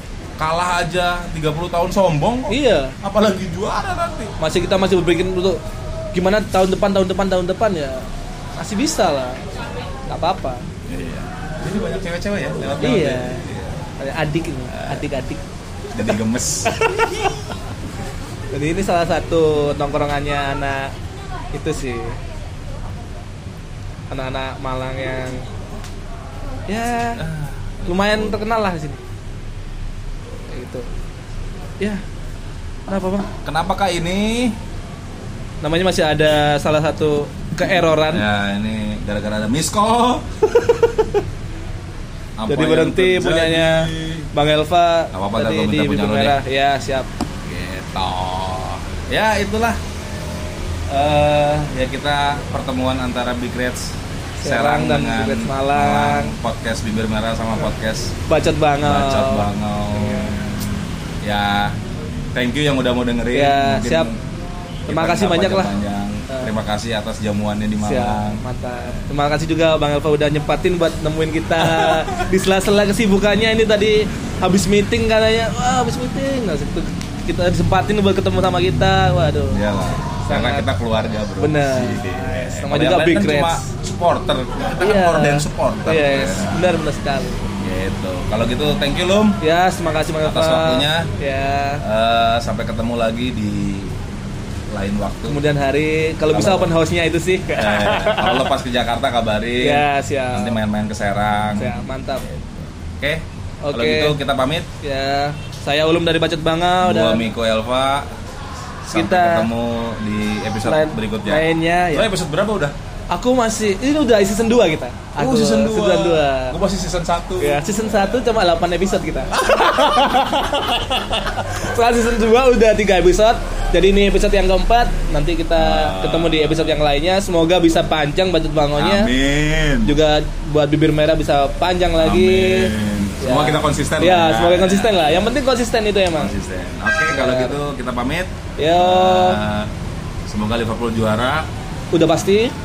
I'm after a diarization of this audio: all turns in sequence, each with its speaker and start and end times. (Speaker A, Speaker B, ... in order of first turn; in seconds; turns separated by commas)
Speaker A: 0.4-4.3, Speaker B: 2.5-2.9, Speaker B: 4.4-5.6, Speaker B: 6.2-8.0, Speaker B: 8.6-9.4, Speaker B: 10.1-10.6, Speaker A: 10.9-13.9, Speaker B: 12.8-13.4, Speaker B: 14.0-15.4, Speaker A: 14.7-15.1, Speaker A: 15.9-17.5, Speaker B: 16.7-17.2, Speaker B: 18.5-20.9, Speaker B: 21.5-22.2, Speaker B: 24.1-25.4, Speaker B: 26.7-27.2, Speaker A: 27.1-28.4, Speaker B: 27.9-29.0, Speaker B: 30.5-30.9, Speaker B: 32.9-33.3, Speaker A: 33.4-34.6, Speaker B: 35.6-38.2, Speaker A: 37.6-40.8, Speaker A: 42.4-44.3, Speaker B: 42.5-47.1, Speaker A: 45.1-46.4, Speaker A: 47.5-49.8, Speaker A: 50.9-58.2, Speaker B: 54.4-56.3, Speaker B: 58.3-59.4, Speaker A: 58.8-60.4, Speaker B: 60.0-60.5, Speaker A: 61.2-61.8, Speaker A: 62.3-64.2, Speaker B: 63.3-64.1, Speaker B: 64.9-65.7, Speaker A: 64.9-69.0, Speaker B: 67.8-79.6, Speaker A: 71.6-72.2, Speaker A: 79.5-86.8, Speaker B: 80.2-80.6, Speaker B: 81.4-83.6, Speaker B: 84.8-87.4, Speaker A: 87.6-89.4, Speaker B: 89.4-91.8, Speaker A: 90.2-91.1, Speaker A: 91.8-94.0, Speaker A: 94.7-95.4, Speaker B: 95.3-98.4, Speaker A: 96.3-96.8, Speaker A: 97.5-104.7, Speaker B: 99.6-100.6, Speaker B: 101.6-102.2, Speaker B: 103.7-104.2, Speaker B: 104.8-107.3, Speaker A: 106.8-108.1, Speaker B: 108.9-109.5, Speaker A: 108.9-112.8, Speaker B: 110.7-112.1, Speaker B: 113.1-116.6, Speaker A: 115.2-118.4, Speaker B: 117.4-129.1, Speaker A: 119.3-120.1, Speaker A: 125.6-126.8, Speaker A: 128.8-129.9, Speaker B: 129.8-136.3, Speaker A: 132.0-135.4, Speaker A: 136.1-139.7, Speaker B: 137.1-137.6, Speaker B: 138.6-139.4, Speaker A: 140.3-141.5, Speaker B: 141.9-142.5